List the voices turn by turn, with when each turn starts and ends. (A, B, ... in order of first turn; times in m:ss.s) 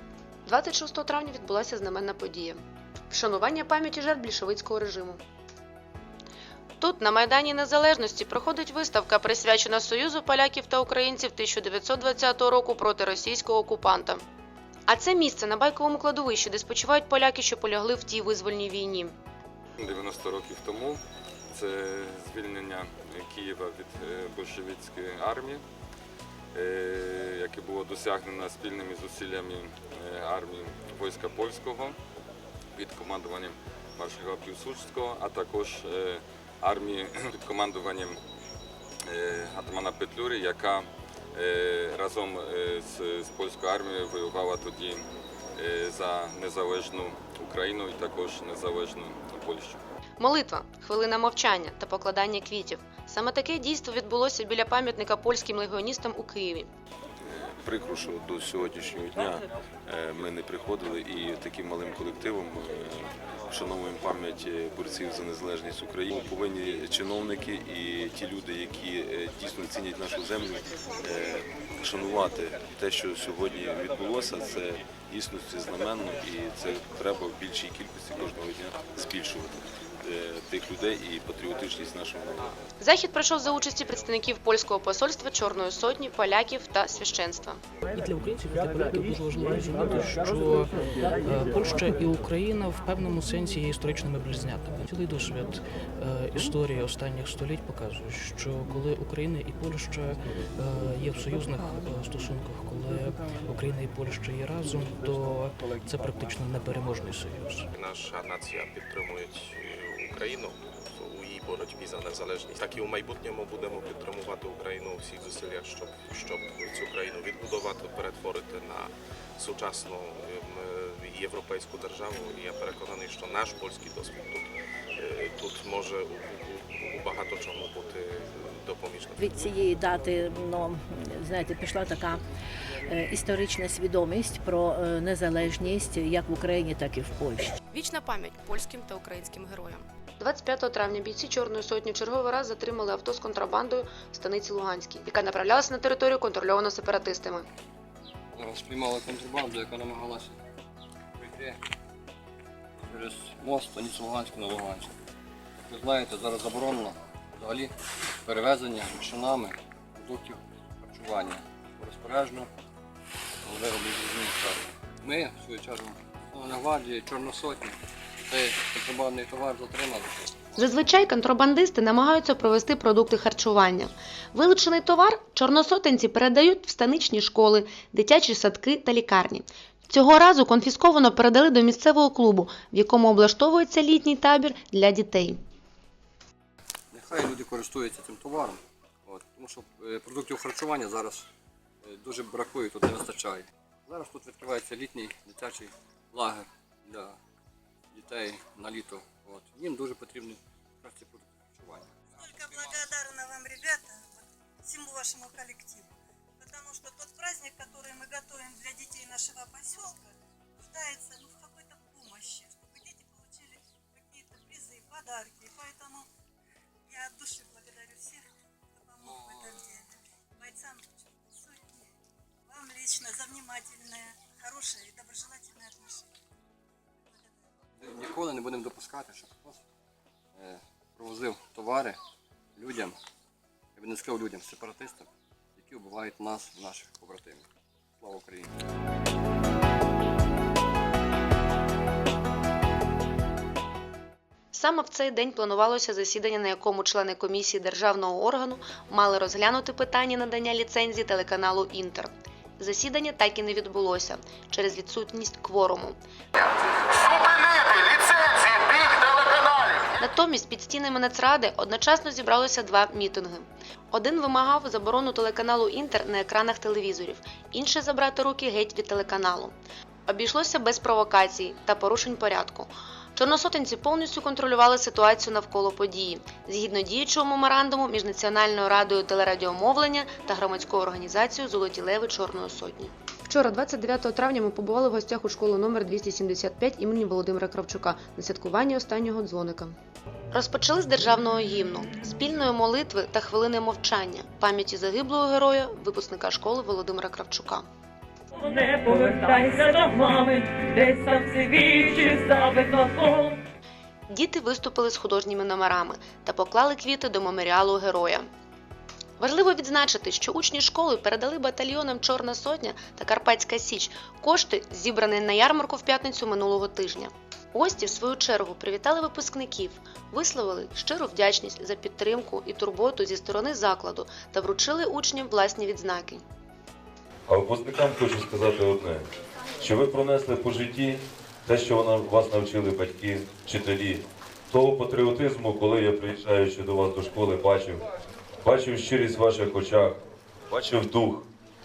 0:00.4-0:05.2 A
0:06.8-0:14.2 A
0:14.9-0:19.2 A
0:19.8-0:25.6 B
0:26.5-0:32.0 B
0:32.7-0:38.2 B
0:39.0-0:49.8 B
0:50.2-0:56.7 A
0:57.3-1:22.5 C
1:22.8-1:27.6 A
1:28.0-1:47.7 D
1:47.7-2:09.2 E
2:09.2-2:12.2 F
2:12.9-2:17.6 F
2:17.7-2:27.5 A
2:28.3-2:30.4 G
2:31.2-2:31.6 G
2:32.9-2:34.9 G
2:35.6-2:37.7 G
2:38.2-2:42.5 G
2:43.4-2:50.8 G
2:50.6-3:05.4 A
3:06.9-3:11.3 G
3:11.8-3:17.2 G
3:17.9-3:22.9 G
3:22.2-3:36.1 H
3:36.9-3:38.2 H
3:38.8-3:41.9 H
3:39.0-3:39.6 G
3:42.5-3:46.1 H
3:47.8-3:49.6 G
3:50.3-3:52.0 G
3:52.6-3:52.9 G
3:53.8-3:57.4 G
3:58.0-3:58.5 G
4:04.5-4:16.0 A
4:17.1-4:17.6 A
4:20.0-4:29.5 A
4:30.1-4:49.8 A
4:50.3-4:57.6 A
4:58.3-5:03.4 I
5:04.1-5:08.2 A
5:09.2-5:26.2 A
5:27.3-5:29.0 J
5:29.6-5:37.8 J
5:38.4-5:40.0 J
5:40.5-5:41.3 J